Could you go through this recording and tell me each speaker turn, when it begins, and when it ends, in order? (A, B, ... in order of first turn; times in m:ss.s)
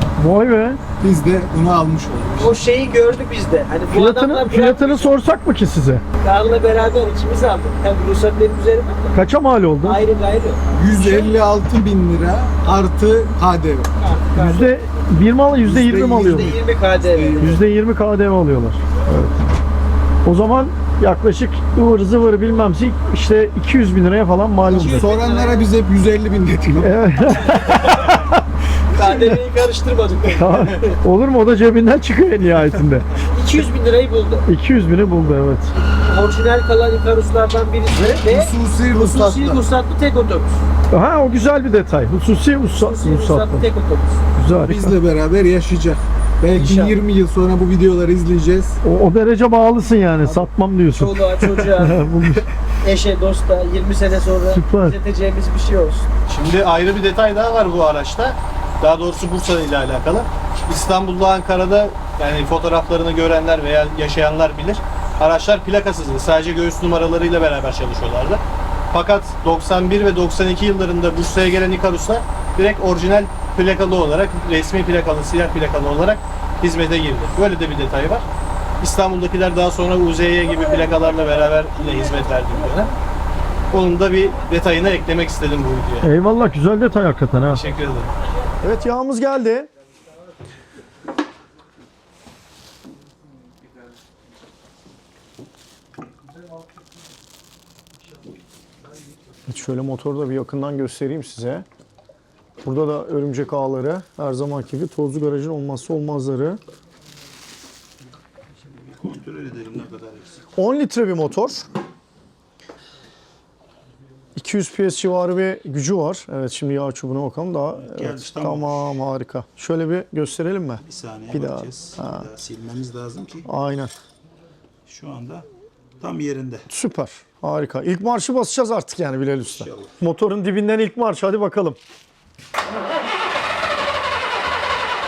0:00.2-0:00.8 A
0:01.0-0:02.6 B
0:02.4-0:05.1 C
0:03.9-0:06.0 A
0:06.2-0:09.2 C
0:09.1-0:10.0 A
0:09.8-0:11.3 C
0:10.7-0:13.9 B
0:14.0-0:14.7 C
0:14.4-0:16.6 A
0:15.6-0:17.6 B
0:16.2-0:17.6 C
0:17.4-0:19.3 A
0:20.2-0:25.1 A
0:24.7-0:25.7 C
0:24.7-0:27.4 B
0:26.8-0:28.4 A
0:27.5-0:28.2 C
0:28.9-0:30.9 C
0:29.0-0:29.4 B
0:30.3-0:33.0 A
0:33.3-0:34.4 C
0:34.5-0:35.7 A
0:36.0-0:40.6 C
0:38.0-0:39.6 B
0:40.9-0:43.7 A
0:42.7-0:44.2 C
0:44.4-0:45.0 A
0:44.6-0:48.8 B
0:46.5-0:47.0 C
0:48.8-0:52.5 A
0:50.9-0:52.1 C
0:52.8-0:56.1 C
0:54.5-0:55.0 A
0:56.3-1:08.4 D
1:08.9-1:18.2 D
1:18.8-1:22.9 D
1:20.4-1:23.0 C
1:23.7-1:26.1 D
1:26.0-1:27.6 A
1:27.5-1:28.1 D
1:28.6-1:29.7 A
1:39.5-1:41.6 A
1:42.6-1:46.6 A
1:48.7-1:50.4 E
1:50.6-1:51.6 A
1:54.4-2:02.3 A
1:57.7-1:59.0 E
2:00.8-2:03.5 E
2:03.4-2:03.9 A
2:04.9-2:05.4 E
2:06.0-2:06.6 E
2:06.7-2:11.8 A
2:09.4-2:09.9 E